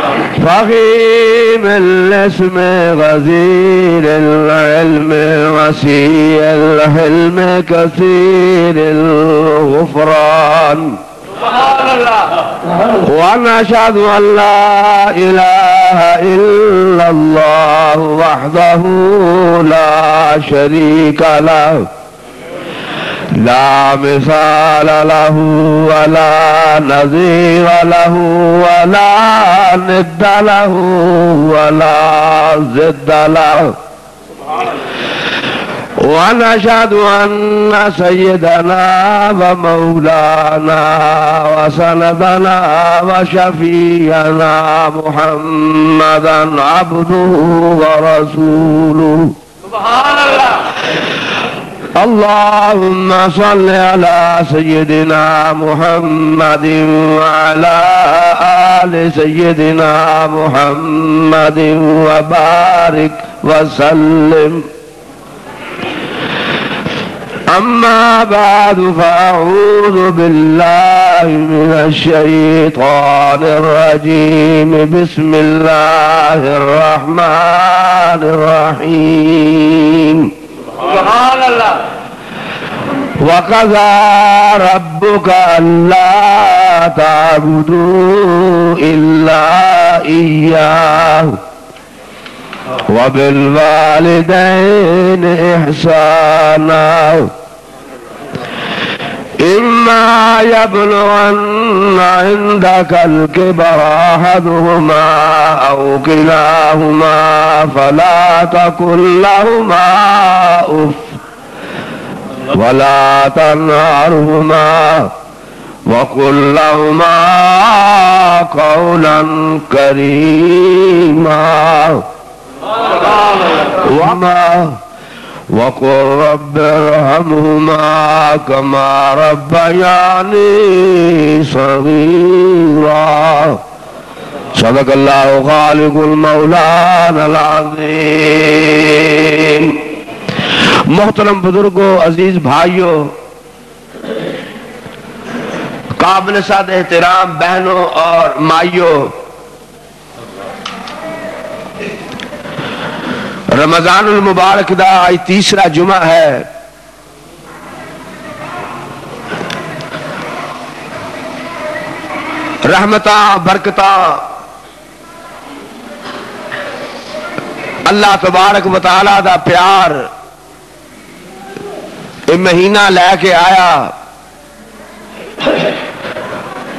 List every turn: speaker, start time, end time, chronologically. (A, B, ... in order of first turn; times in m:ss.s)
0:00.3-0:11.0 A
0:11.4-0:12.4 B
0:13.0-0:21.9 A
0:23.4-0:33.8 A
0:36.0-0:49.4 A
0:49.7-0:50.7 B
0:52.0-1:04.7 A
1:07.5-1:20.3 A
1:20.8-1:21.9 B
1:23.2-1:31.4 A
1:32.9-1:37.3 A
1:39.4-1:51.2 A
1:52.5-1:55.1 A
1:55.9-2:02.0 A
2:03.8-2:04.8 A
2:05.5-2:13.6 A
2:14.6-2:19.8 A
2:20.9-2:23.1 A
2:26.0-2:29.1 A
2:33.5-2:36.5 A
2:42.6-2:44.3 A
2:47.9-2:50.1 A
2:52.3-2:53.9 A